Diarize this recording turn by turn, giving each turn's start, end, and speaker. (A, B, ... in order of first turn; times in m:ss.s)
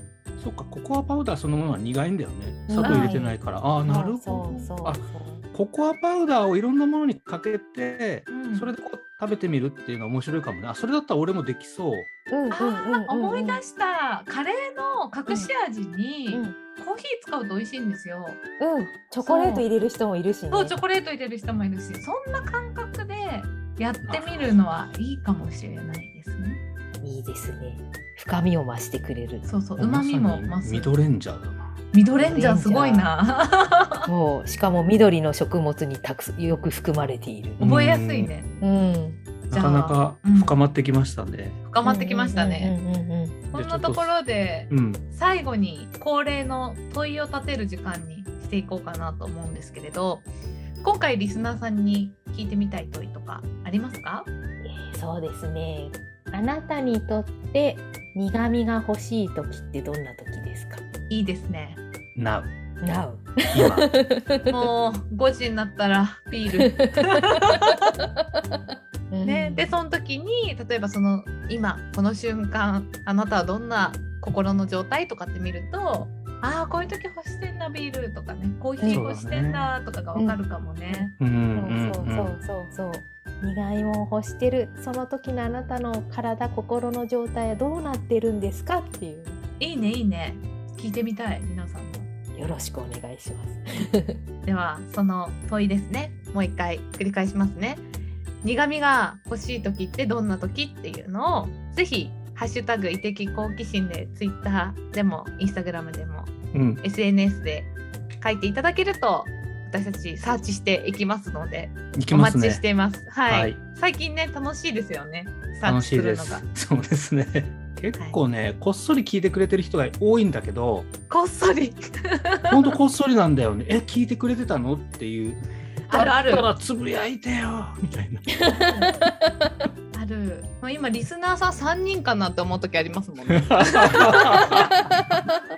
0:00.4-0:12.1 A
0:02.7-0:05.4 B
0:02.8-0:03.1 C
0:08.3-0:08.7 C
0:12.3-0:13.6 B
0:12.5-0:18.4 C
0:15.3-0:15.5 B
0:16.3-0:16.6 B
0:18.6-0:20.8 B
0:19.2-0:19.7 C
0:20.5-0:26.6 C
0:24.1-0:24.6 A
0:27.0-0:29.5 B
0:29.4-0:31.0 C
0:29.8-0:31.7 A
0:31.9-0:34.1 C
0:32.2-0:33.1 B
0:34.1-0:37.6 B
0:37.6-0:38.3 A
0:37.6-0:38.5 C
0:38.6-0:39.2 B
0:39.5-0:41.6 A
0:39.5-0:40.6 C
0:41.7-0:42.8 C
0:41.8-0:43.4 B
0:43.5-0:50.3 C
0:43.5-0:44.2 A
0:44.7-0:45.0 A
0:50.8-0:54.3 C
0:54.6-1:00.8 B
1:01.1-1:01.8 C
1:02.2-1:02.5 A
1:02.8-1:04.7 B
1:03.5-1:03.8 A
1:04.5-1:07.9 C
1:06.6-1:08.6 B
1:09.1-1:09.7 B
1:09.2-1:21.2 C
1:18.8-1:19.1 B
1:18.9-1:19.7 A
1:20.2-1:29.4 B
1:21.2-1:22.4 A
1:29.6-1:32.1 C
1:32.3-1:34.2 B
1:34.5-1:37.9 C
1:38.4-1:56.4 C
1:46.5-1:46.8 A
1:52.0-1:52.6 A
1:53.3-1:53.6 A
1:55.6-2:00.9 A
2:01.1-2:02.7 C
2:02.5-2:08.4 A
2:05.9-2:06.5 C
2:08.5-2:09.7 B
2:08.5-2:09.0 C
2:09.9-2:14.8 C
2:13.4-2:14.7 A
2:14.9-2:15.3 B